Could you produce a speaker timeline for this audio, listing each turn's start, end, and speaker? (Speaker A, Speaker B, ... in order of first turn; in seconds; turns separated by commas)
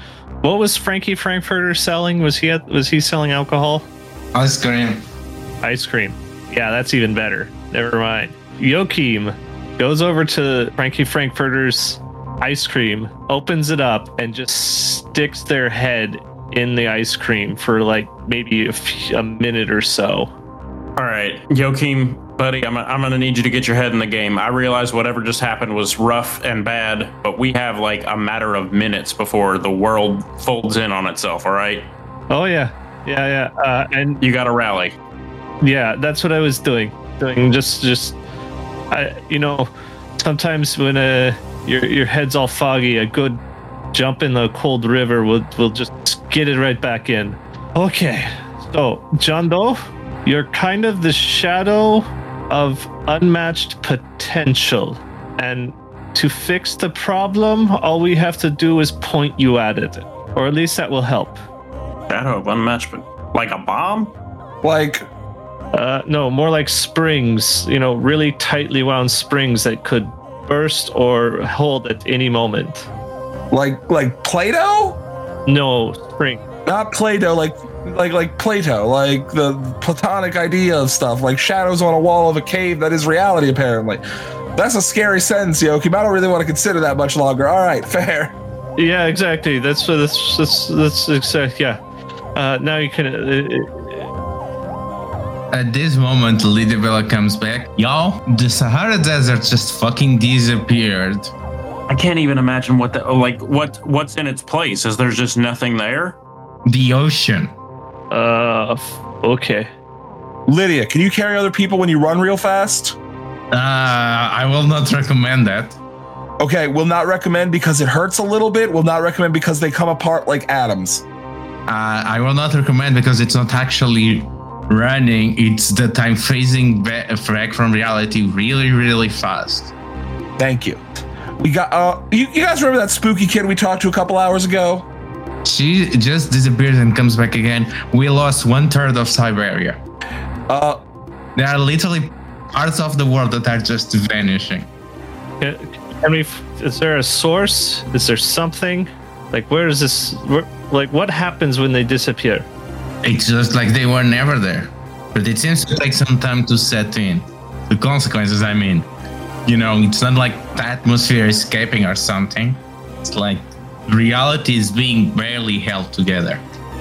Speaker A: 0.4-3.9, Speaker B: 4.3-5.0, Speaker A: 5.6-20.3, Speaker C: 20.9-31.9, Speaker A: 32.3-34.2, Speaker C: 34.2-35.0, Speaker A: 35.6-38.2, Speaker A: 38.9-43.4, Speaker A: 43.9-61.4, Speaker C: 62.1-64.1, Speaker D: 64.6-65.1, Speaker A: 65.7-72.9, Speaker D: 73.5-75.0, Speaker A: 75.5-76.4, Speaker D: 76.7-84.0, Speaker D: 84.5-88.3, Speaker A: 88.8-91.8, Speaker A: 92.3-94.1, Speaker B: 95.5-101.3, Speaker C: 101.9-106.2, Speaker B: 106.7-107.5, Speaker A: 108.1-109.7, Speaker D: 110.5-113.0, Speaker B: 113.5-115.8, Speaker D: 116.4-121.0, Speaker B: 121.7-129.7, Speaker D: 130.4-130.8, Speaker D: 131.4-134.8, Speaker B: 135.4-139.8, Speaker D: 140.5-140.8, Speaker B: 141.3-144.7, Speaker A: 145.4-152.5, Speaker B: 153.0-158.9, Speaker B: 159.4-166.4